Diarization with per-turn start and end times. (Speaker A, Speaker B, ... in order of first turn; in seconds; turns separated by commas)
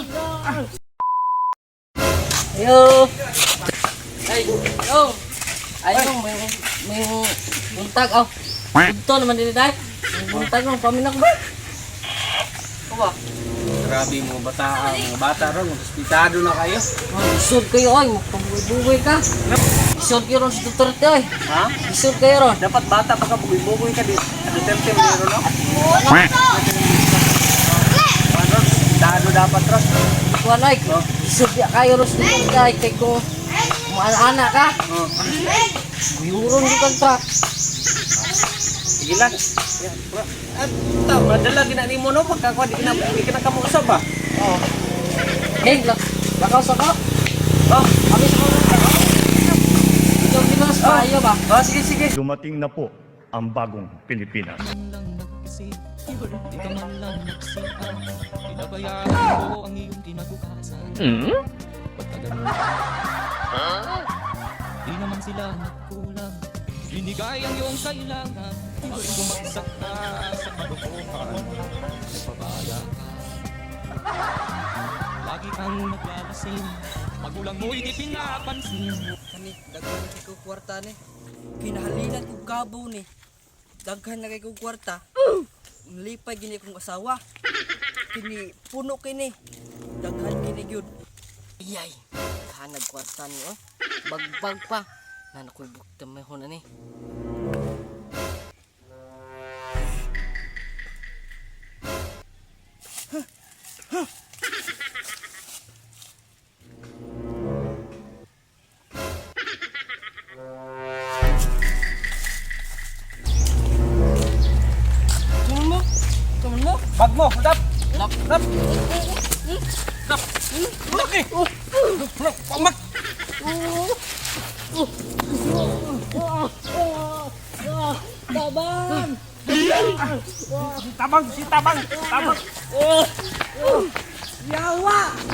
Speaker A: 2.5-3.1, Speaker A: 4.3-5.2, Speaker A: 5.8-11.4, Speaker B: 13.8-16.9, Speaker A: 17.1-19.2, Speaker A: 19.9-21.3, Speaker B: 21.5-21.8, Speaker A: 21.8-22.6, Speaker B: 22.6-25.5, Speaker A: 25.8-26.4, Speaker B: 26.4-30.0, Speaker A: 30.4-33.3, Speaker A: 33.9-34.8, Speaker B: 34.9-35.4, Speaker A: 36.1-37.2, Speaker B: 39.0-44.6, Speaker A: 45.6-47.0, Speaker B: 47.7-48.0, Speaker A: 48.1-49.1, Speaker A: 50.2-51.4, Speaker B: 50.8-52.1, Speaker C: 52.1-54.6, Speaker D: 54.6-61.4, Speaker D: 62.0-62.7, Speaker D: 64.8-73.4, Speaker D: 75.2-79.2, Speaker E: 79.3-81.0, Speaker E: 81.6-83.1, Speaker E: 83.8-85.0, Speaker E: 85.9-87.2, Speaker E: 88.1-89.3, Speaker E: 90.0-90.9, Speaker A: 91.6-96.6, Speaker A: 115.5-115.8, Speaker A: 116.4-116.8, Speaker B: 116.9-117.6, Speaker B: 118.2-118.4, Speaker B: 120.9-121.3, Speaker B: 121.9-122.8, Speaker E: 128.3-129.1, Speaker B: 130.8-132.4, Speaker E: 133.6-135.2